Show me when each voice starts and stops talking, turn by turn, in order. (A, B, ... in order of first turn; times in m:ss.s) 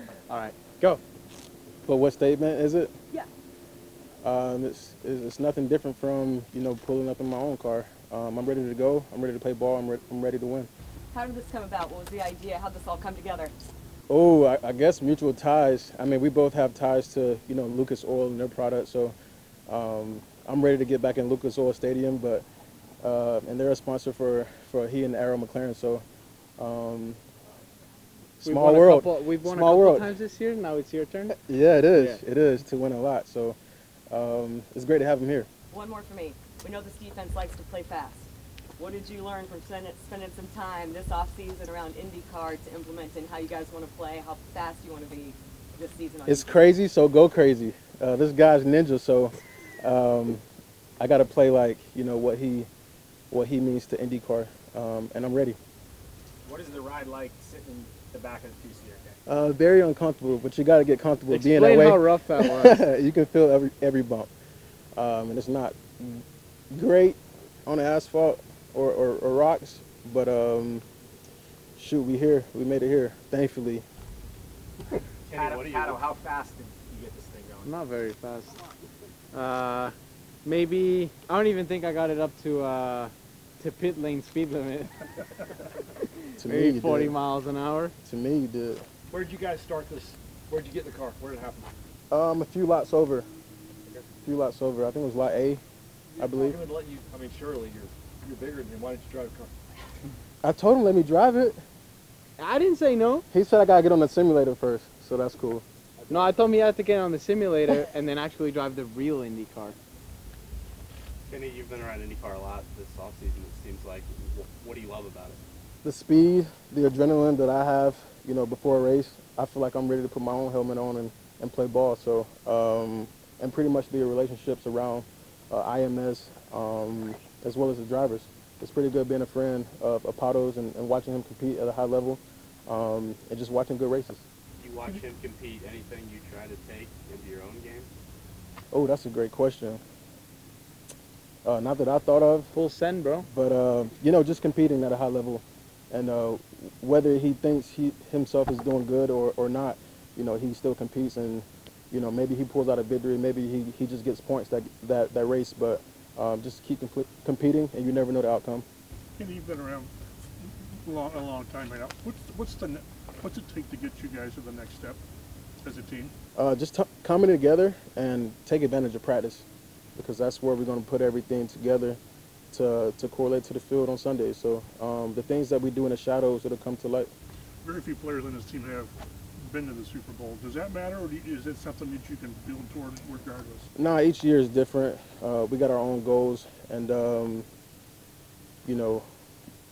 0:00.3-0:01.0 A
0:01.9-0:02.9 B
0:04.2-0:10.7 B
0:11.1-0:13.5 C
0:14.1-0:19.1 B
0:19.7-0:22.4 B
0:23.0-0:26.0 B
0:26.6-0:27.2 B
0:28.4-0:30.1 B
0:28.4-0:31.4 A
0:31.3-0:33.6 B
0:34.1-0:35.5 B
0:35.7-0:46.6 C
0:46.3-0:50.4 B
0:51.0-0:52.7 B
0:53.3-0:55.6 B
0:56.4-0:59.2 D
0:59.3-1:04.3 B
1:01.3-1:02.8 A
1:05.0-1:10.8 B
1:11.8-1:13.8 B
1:15.3-1:16.1 E
1:15.3-1:17.7 D
1:17.6-1:18.6 A
1:19.3-1:19.9 A
1:20.4-1:25.1 A
1:26.2-1:27.9 A
1:26.4-1:27.2 B
1:28.0-1:28.8 B
1:29.1-1:31.7 F
1:32.1-1:33.3 B
1:34.2-1:35.6 B
1:36.2-1:36.7 B
1:36.2-1:39.5 F
1:40.4-1:41.6 B
1:42.4-1:43.2 A
1:43.3-1:45.6 B
1:46.1-1:49.8 A
1:51.3-1:55.4 E
1:55.8-2:14.3 B
2:14.6-2:17.9 E
2:18.7-2:19.8 B
2:21.4-2:22.5 B
2:22.6-2:23.3 A
2:23.3-2:38.6 B
2:39.2-2:45.0 G
2:45.6-2:46.1 G
2:46.4-2:52.0 B
2:52.5-2:57.1 B
2:57.6-3:03.7 G
3:03.8-3:07.5 B
3:08.6-3:09.1 B